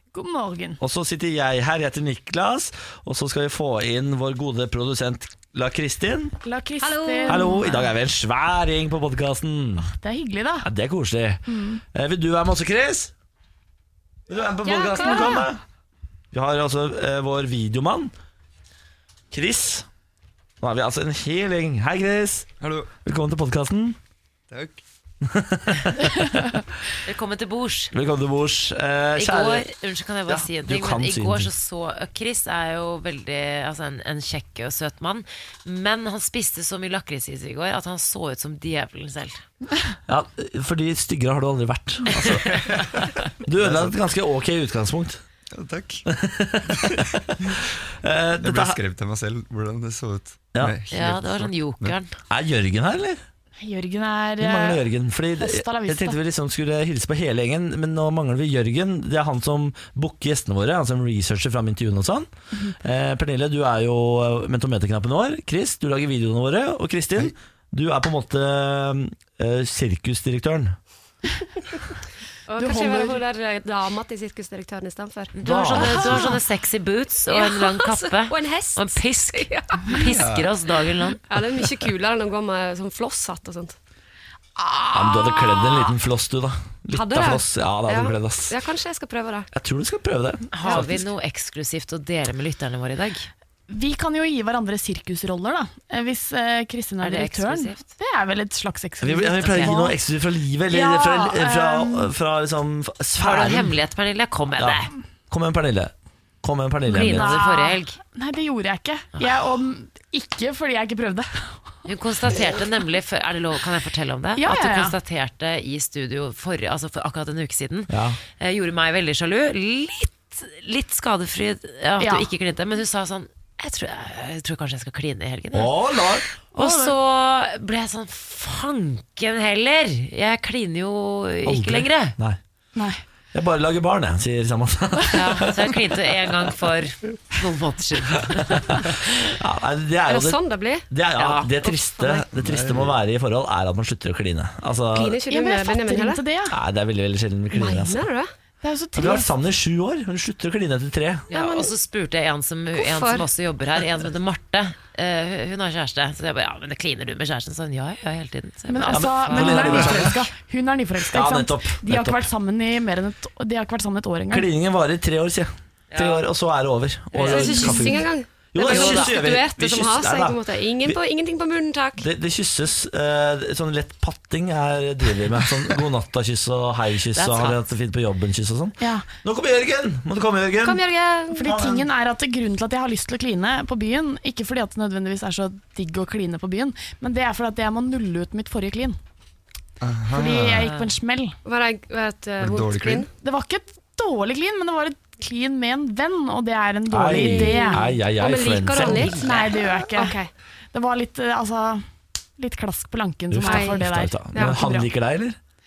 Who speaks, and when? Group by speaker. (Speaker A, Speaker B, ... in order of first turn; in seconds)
Speaker A: 0.1-0.8, 6.4-7.7, 9.8-10.7, 11.5-11.8, 15.0-15.4, 53.6-56.2, 72.6-73.2, 93.7-100.0, 100.7-102.1, 106.9-111.6, 114.4-115.0, 122.0-122.3, 126.5-126.9, 132.8-133.0, 145.3-146.6, 148.6-149.3, 158.7-164.5, 178.8-179.1, 181.3-189.0, 190.1-191.3, 193.1-197.8, 199.1-200.2, 200.7-201.8, 202.4-204.9
Speaker B: 0.8-6.3, 7.3-9.9, 10.6-13.1, 14.3-15.6, 16.3-18.1, 19.3-19.9, 20.6-22.5, 23.0-24.0, 25.2-26.6, 27.9-29.7, 30.3-31.5, 40.1-42.6, 43.5-45.2, 46.1-48.8, 52.3-53.2, 54.4-62.3, 62.8-70.8, 75.4-76.3, 84.9-88.5, 89.5-91.1, 99.0-103.7, 104.6-105.9, 106.4-107.3, 117.9-118.2, 125.5-126.3, 131.5-132.4, 133.3-135.7, 138.4-145.2, 146.5-148.0, 149.0-151.3, 158.9-160.2, 161.1-162.2, 164.3-171.0, 172.0-180.8, 181.4-181.8, 196.9-199.1, 203.3-205.4
Speaker C: 6.8-7.6, 14.7-15.5, 72.5-76.3, 77.3-80.1, 81.3-83.8, 85.3-85.6, 86.9-89.5, 140.1-140.9, 144.9-146.2, 147.5-148.3, 151.3-151.7, 152.7-153.3, 167.2-172.1, 180.6-181.7, 191.4-193.1, 197.0-200.3, 203.4-203.8, 204.3-204.7
Speaker D: 22.6-22.9, 24.5-24.8, 42.2-44.0, 45.5-46.0, 48.4-52.0, 80.0-80.5, 142.3-143.0, 189.8-190.7, 192.4-193.1
Speaker E: 27.0-27.9, 29.2-39.4, 50.9-52.1, 75.3-81.2, 90.5-93.3, 97.0-97.8, 99.4-99.9, 103.2-104.9, 106.9-108.0, 111.9-125.7, 126.5-132.2, 135.1-139.2, 141.2-141.5, 151.3-160.1, 165.9-166.2, 167.2-167.8, 168.6-169.2, 177.2-177.7, 190.6-190.9, 198.8-199.3